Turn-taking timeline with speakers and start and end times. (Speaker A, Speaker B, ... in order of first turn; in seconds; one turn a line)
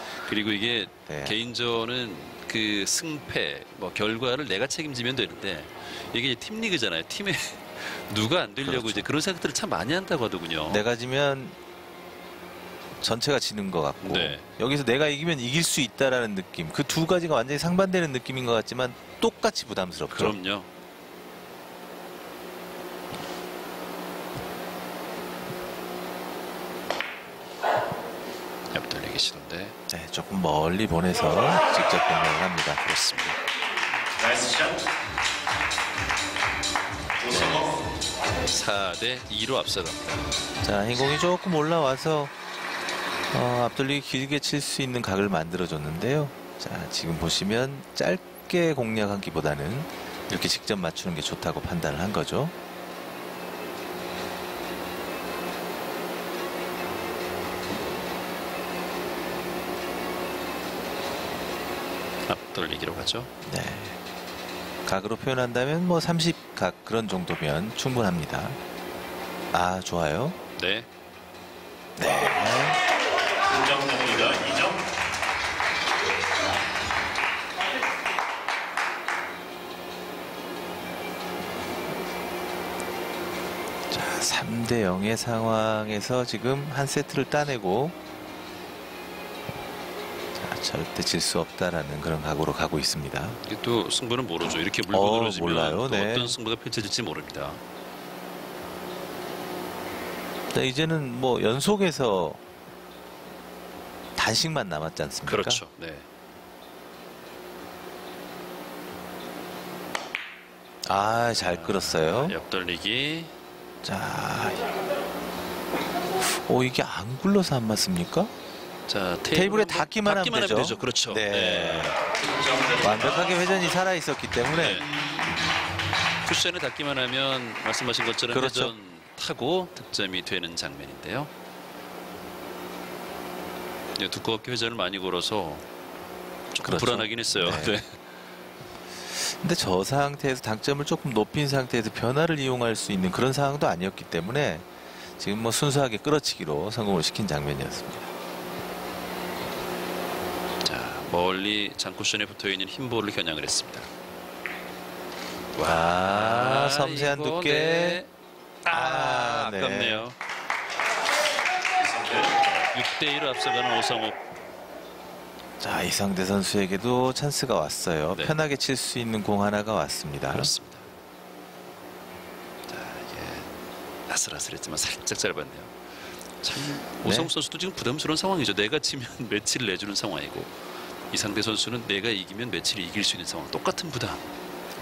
Speaker A: 0.2-10.8
Speaker B: 1.1-1.4
Speaker B: 8.6-9.1
Speaker B: 10.7-11.6
Speaker B: 13.0-20.4
Speaker A: 14.0-14.4
Speaker A: 20.1-20.7
Speaker A: 28.7-29.8
Speaker B: 29.9-32.8
Speaker A: 32.8-33.4
Speaker C: 34.2-34.8
Speaker C: 37.2-37.7
Speaker B: 37.3-37.9
Speaker A: 38.5-40.3
Speaker B: 40.6-42.3
Speaker B: 43.3-52.5
Speaker A: 62.3-63.3
Speaker B: 63.4-64.0
Speaker B: 64.9-68.6
Speaker B: 69.5-70.4
Speaker A: 70.6-70.9
Speaker B: 72.0-72.8
Speaker C: 73.5-74.8
Speaker B: 83.9-88.0
Speaker B: 90.4-93.4
Speaker A: 93.4-97.6
Speaker B: 94.9-96.4
Speaker B: 100.5-102.4
Speaker B: 104.2-105.6
Speaker A: 105.2-106.1
Speaker B: 110.8-112.4
Speaker A: 111.4-113.3
Speaker B: 113.8-114.6
Speaker B: 116.2-118.3
Speaker A: 118.9-122.0
Speaker B: 119.3-122.0
Speaker C: 122.4-123.4
Speaker B: 122.8-124.8
Speaker A: 124.6-124.9
Speaker A: 126.2-131.3
Speaker B: 128.3-128.7
Speaker A: 134.0-135.7
Speaker A: 136.5-138.0
Speaker B: 136.6-137.8
Speaker B: 139.1-148.1
Speaker A: 150.6-153.9
Speaker A: 155.5-158.1
Speaker B: 155.6-158.0
Speaker A: 158.6-160.2
Speaker B: 158.7-160.1
Speaker A: 162.2-164.2
Speaker B: 165.6-170.5
Speaker A: 168.1-168.4
Speaker A: 170.3-170.8
Speaker A: 172.7-173.5
Speaker A: 174.1-175.8
Speaker A: 176.4-184.3
Speaker B: 177.0-177.3